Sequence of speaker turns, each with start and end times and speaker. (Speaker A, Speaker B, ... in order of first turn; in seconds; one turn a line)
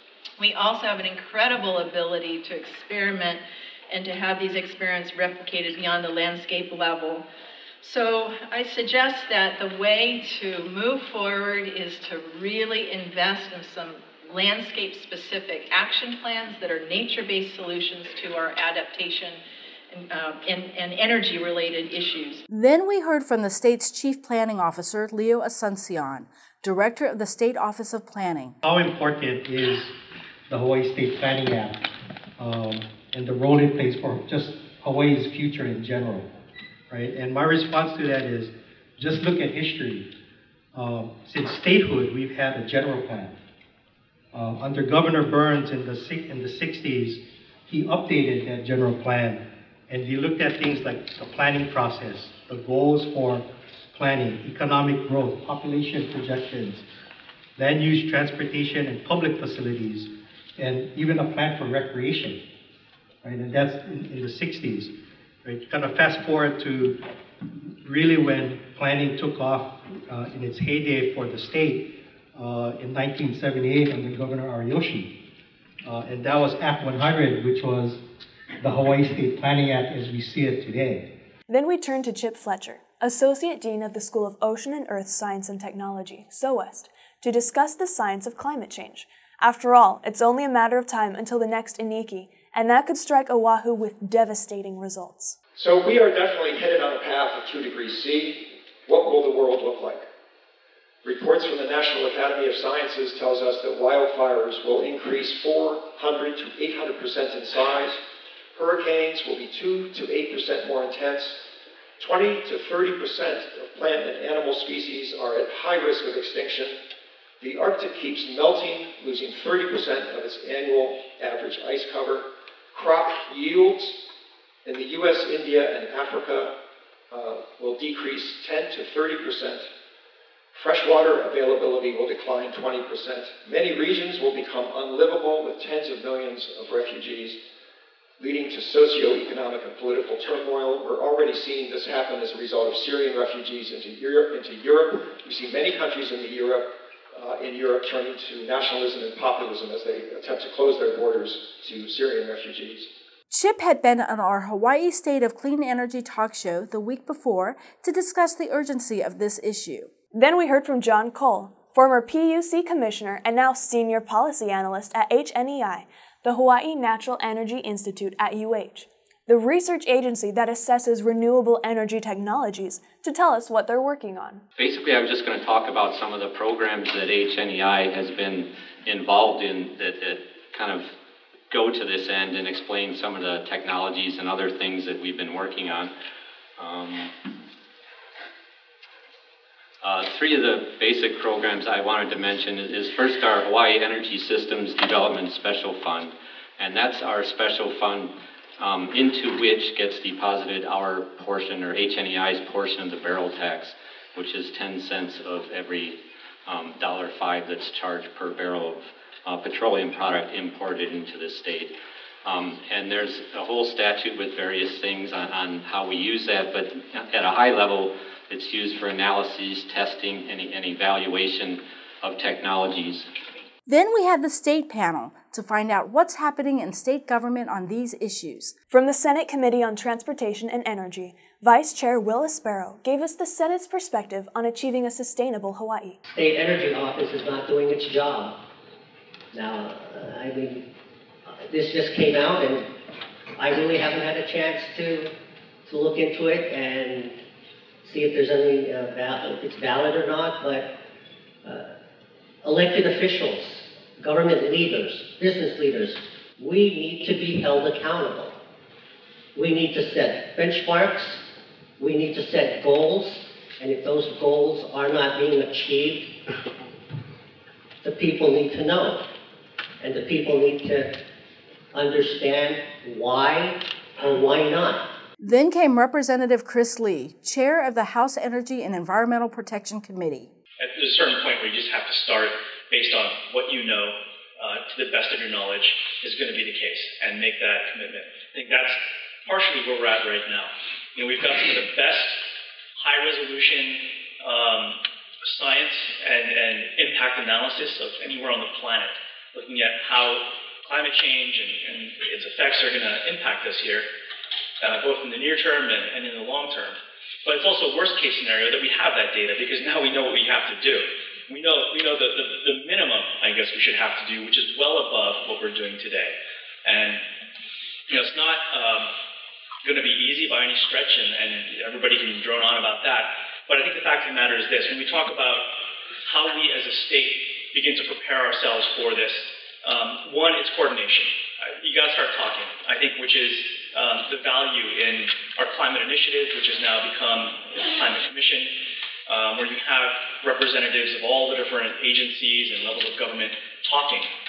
Speaker A: 0.4-7.2
Speaker A: 7.8-22.4
Speaker B: 22.5-28.6
Speaker C: 28.6-29.9
Speaker C: 30.5-31.9
Speaker C: 32.4-36.3
Speaker C: 36.9-40.1
Speaker C: 40.7-43.4
Speaker C: 44.3-56.8
Speaker C: 57.5-62.4
Speaker C: 63.2-67.0
Speaker C: 67.8-75.2
Speaker C: 75.8-78.0
Speaker C: 78.6-81.1
Speaker D: 81.5-95.3
Speaker E: 95.5-100.0
Speaker E: 101.0-108.0
Speaker E: 108.5-111.4
Speaker E: 112.0-116.7
Speaker E: 117.4-124.0
Speaker E: 124.6-126.5
Speaker E: 127.1-129.7
Speaker E: 130.5-137.4
Speaker E: 138.2-152.9
Speaker B: 153.3-159.9
Speaker D: 160.1-174.4
Speaker F: 174.6-180.9
Speaker F: 181.5-185.9
Speaker F: 186.6-187.1
Speaker F: 189.8-211.7
Speaker F: 212.2-223.1
Speaker B: 223.7-228.5
Speaker D: 228.7-236.0
Speaker G: 236.1-238.4
Speaker G: 239.3-240.7
Speaker G: 241.2-242.7
Speaker G: 243.3-245.1
Speaker G: 245.6-247.2
Speaker G: 247.8-250.7
Speaker G: 251.4-251.7
Speaker G: 252.4-258.4
Speaker G: 259.3-261.2
Speaker G: 261.8-266.3
Speaker G: 267.8-269.1
Speaker G: 269.8-271.0
Speaker G: 271.7-274.9
Speaker B: 275.2-280.3
Speaker H: 280.6-303.9
Speaker H: 304.6-317.0
Speaker H: 317.9-318.9
Speaker H: 319.6-338.5
Speaker H: 339.1-344.1